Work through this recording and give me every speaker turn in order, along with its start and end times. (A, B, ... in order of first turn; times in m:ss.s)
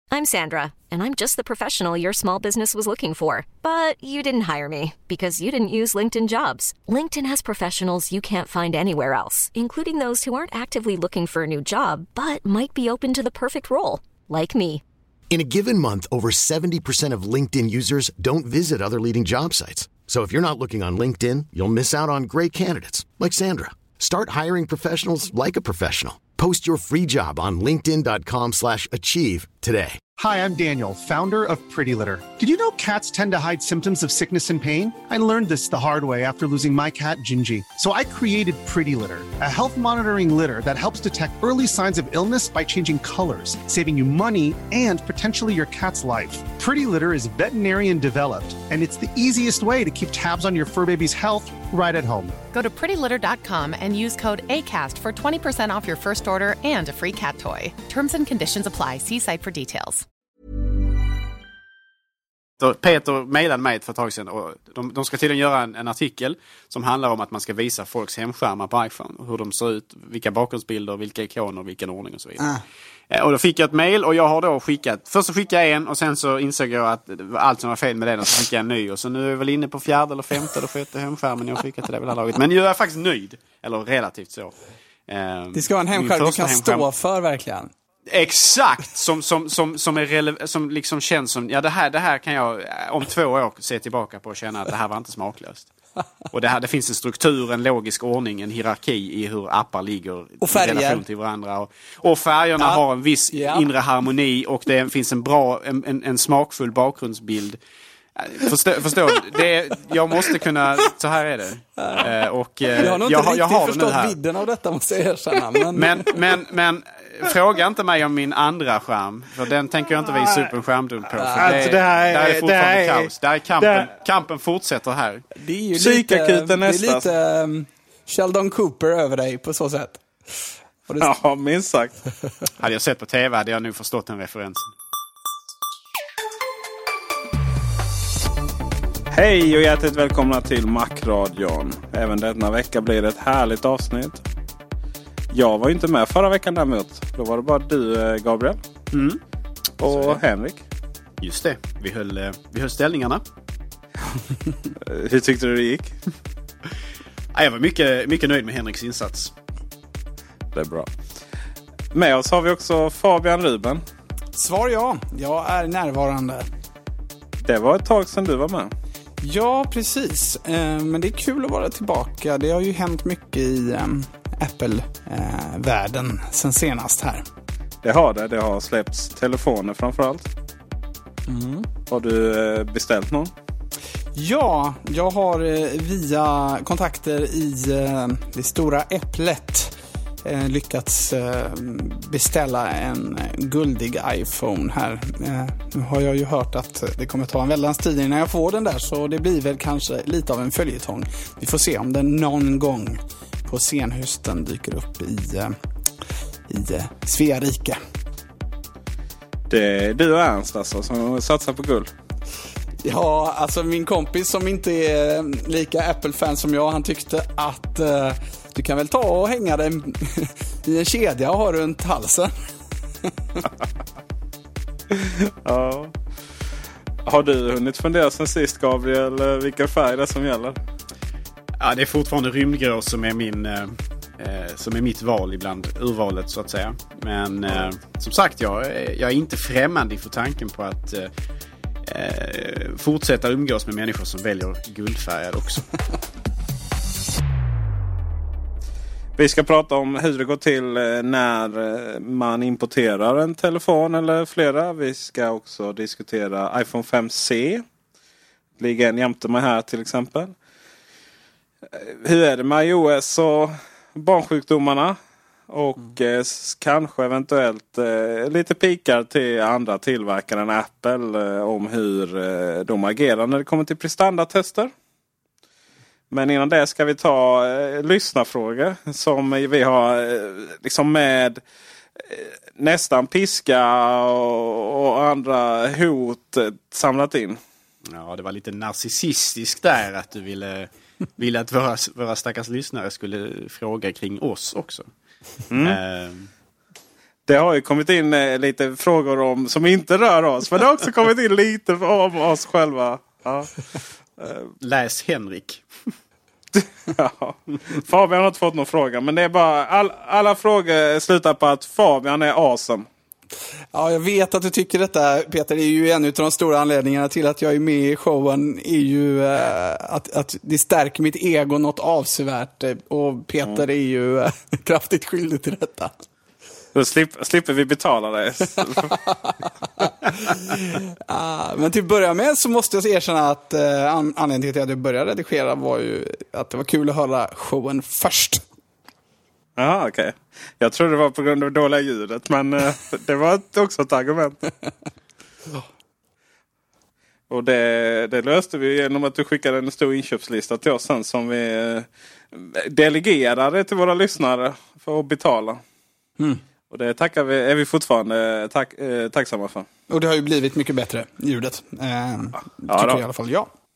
0:00.1-0:14.8 A
0:15.3-0:30.0 B
0:30.2-0:52.4 C
0:52.5-1:00.0 D
1:02.6-1:24.5 E
1:25.1-1:26.9 E
1:25.5-1:27.7 F
1:28.1-1:35.7 E
1:36.3-1:47.6 E
1:40.4-1:41.0 F
1:42.6-1:43.7 F
1:48.2-1:54.2 E
1:52.8-1:56.2 F
1:55.7-2:05.2 E
2:01.2-2:01.7 F
2:01.4-2:03.9 G
2:05.4-2:10.0 F
2:05.7-2:07.1 G
2:11.0-2:12.0 G
2:12.6-2:14.7 E
2:19.1-2:24.2 G
2:25.3-2:28.6 G
2:28.9-2:29.2 E
2:29.8-2:30.6 G
2:29.8-2:30.2 E
2:31.2-2:33.2 E
2:34.8-2:35.9 G
2:37.3-2:39.3 E
2:40.5-2:40.9 G
2:41.9-2:43.8 G
2:44.3-2:46.4 F
2:47.4-2:48.7 G
2:49.2-2:57.2 F
2:57.8-3:00.3 G
3:01.3-3:01.6 F
3:01.9-3:03.3 G
3:04.2-3:25.5 F
3:26.5-3:27.8 F
3:29.5-3:31.9 G
3:32.8-3:42.3 F
3:44.9-3:45.9 G
3:47.0-3:50.6 G
3:51.6-4:01.1 E
4:01.8-4:05.7 E
4:09.2-4:17.6 G
4:18.6-4:20.3 G
4:21.7-4:25.0 G
4:25.5-4:34.7 G
4:36.1-4:41.4 G
4:42.0-4:47.4 G
4:47.8-4:54.9 E
4:55.5-4:55.8 G
4:55.6-4:56.3 E
4:57.3-5:04.5 G
5:04.6-5:05.6 E
5:06.5-5:12.9 G
5:13.7-5:25.9 F
5:26.7-5:29.0 G
5:30.1-5:38.4 F
5:39.6-5:44.4 G
5:47.3-5:55.6 G
5:56.7-5:59.7 G
5:59.9-6:03.5 F
6:02.7-6:03.0 G